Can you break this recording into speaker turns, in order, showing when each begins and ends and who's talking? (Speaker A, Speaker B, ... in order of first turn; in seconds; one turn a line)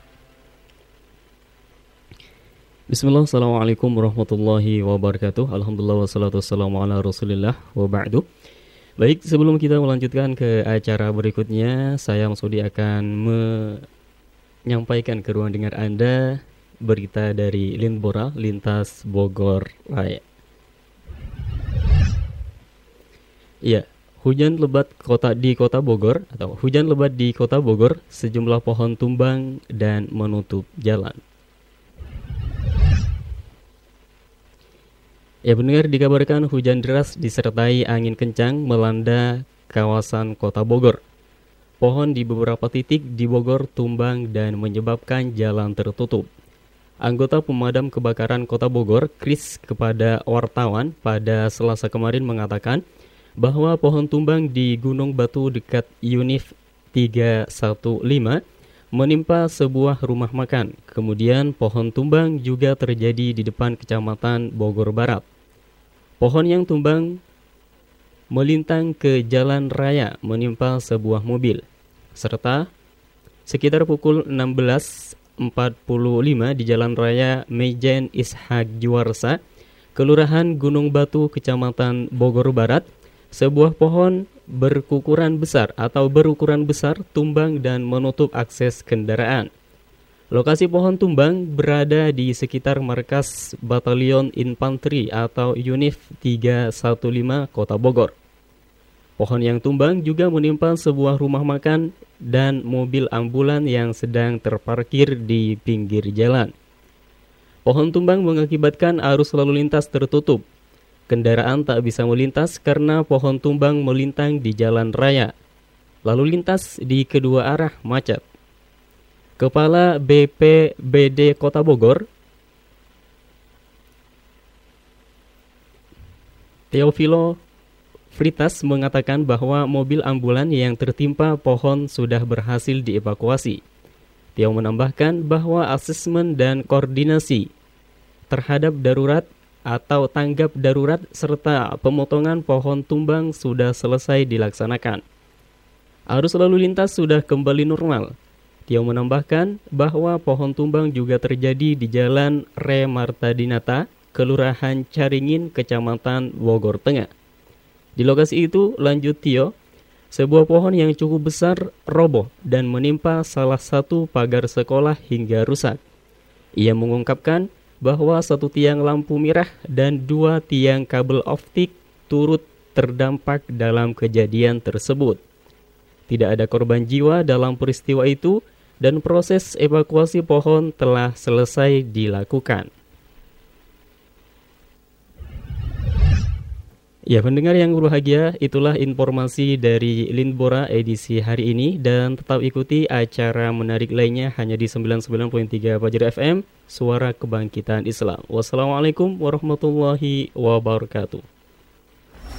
Speaker A: 2.9-8.2
Speaker A: 9.0-13.8
Speaker A: 14.7-20.2
Speaker A: 23.6-31.2
Speaker A: 35.5-41.0
Speaker A: 41.8-46.3
Speaker A: 47.0-52.8
Speaker A: 53.4-58.4
Speaker A: 58.9-65.2
Speaker A: 66.2-67.2
Speaker A: 68.3-71.6
Speaker A: 72.1-72.7
Speaker A: 73.5-79.4
Speaker A: 79.9-89.5
Speaker A: 90.3-98.1
Speaker A: 99.2-106.5
Speaker A: 107.7-110.4
Speaker A: 111.1-115.3
Speaker A: 116.0-118.2
Speaker A: 119.4-122.0
Speaker A: 126.7-127.4
Speaker A: 128.1-133.6
Speaker A: 134.3-137.5
Speaker A: 138.3-145.0
Speaker A: 146.1-148.1
Speaker A: 148.7-157.1
Speaker A: 158.0-159.5
Speaker A: 160.1-165.8
Speaker A: 166.6-175.2
Speaker A: 176.1-182.7
Speaker A: 187.1-201.2